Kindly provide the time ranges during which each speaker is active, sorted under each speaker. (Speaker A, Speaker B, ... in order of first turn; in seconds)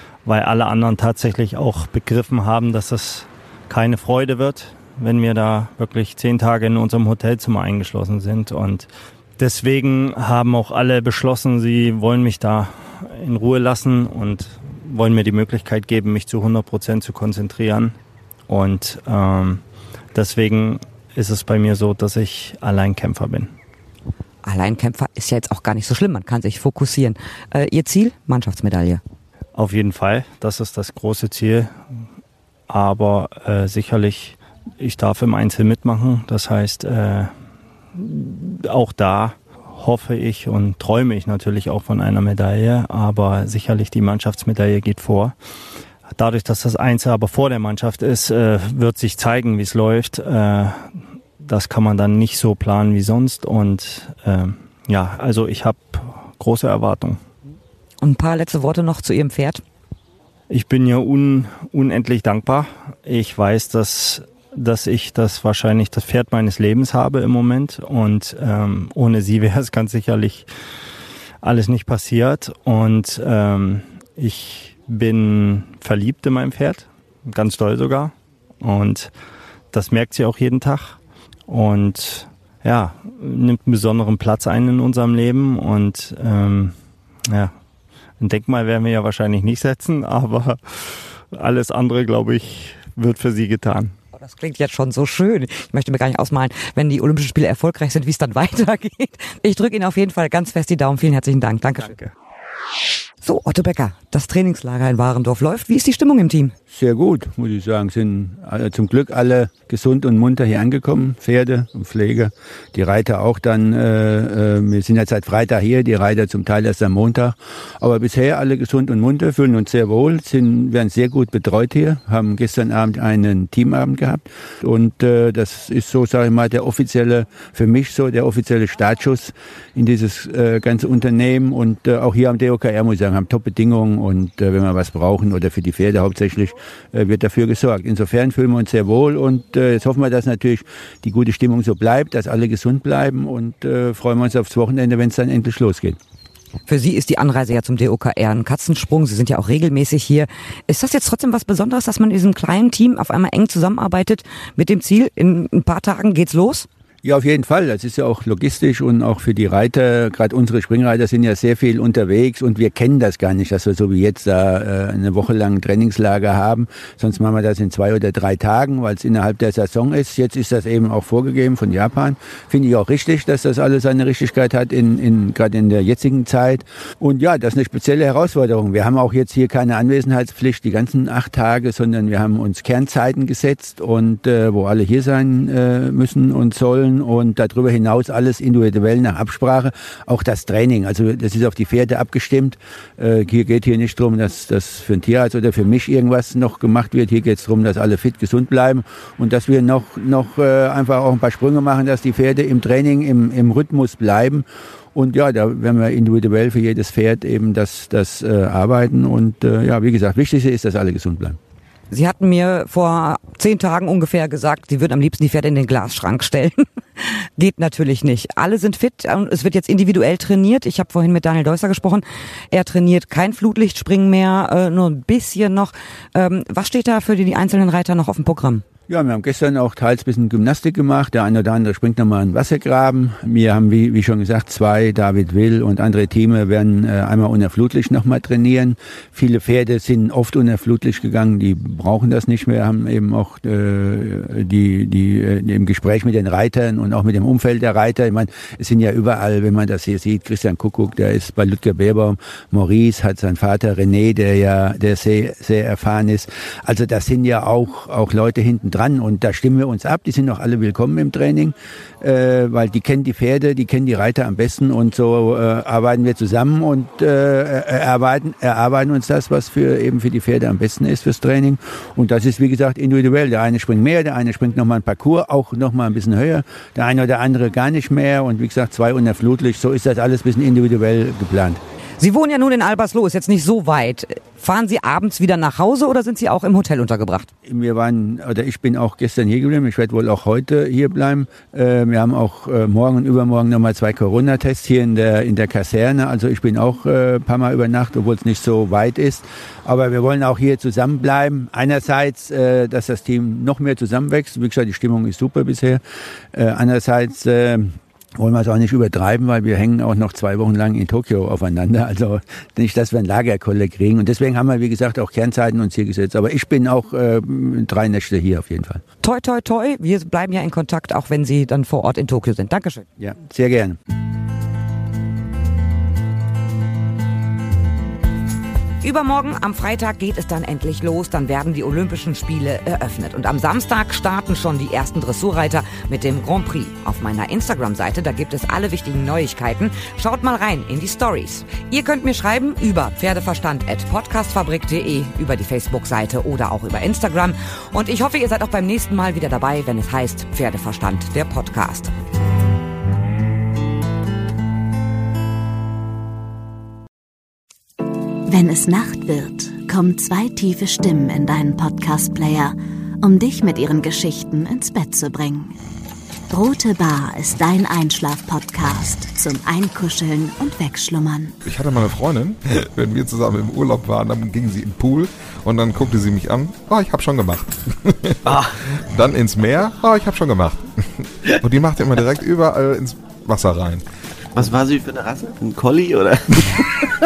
Speaker A: 0.2-17.9, 18.5-19.6, 20.1-23.5, 29.5-31.8, 32.7-37.3, 37.9-45.3, 46.1-57.2, 60.5-70.5, 71.4-79.1, 79.7-81.0, 81.5-86.7, 87.3-87.5, 88.2-93.9
Speaker B: 24.4-29.0, 58.0-59.6, 94.2-102.0, 103.2-106.5, 146.7-156.7, 211.9-228.6, 282.0-287.3, 319.0-322.9, 328.8-351.9
Speaker C: 106.7-146.0, 157.0-211.4, 228.9-281.6, 287.4-305.8, 306.3-318.8, 323.0-323.8
Speaker D: 358.3-365.6, 366.3-371.4
Speaker E: 371.4-383.8
Speaker F: 378.3-378.5, 384.3-386.9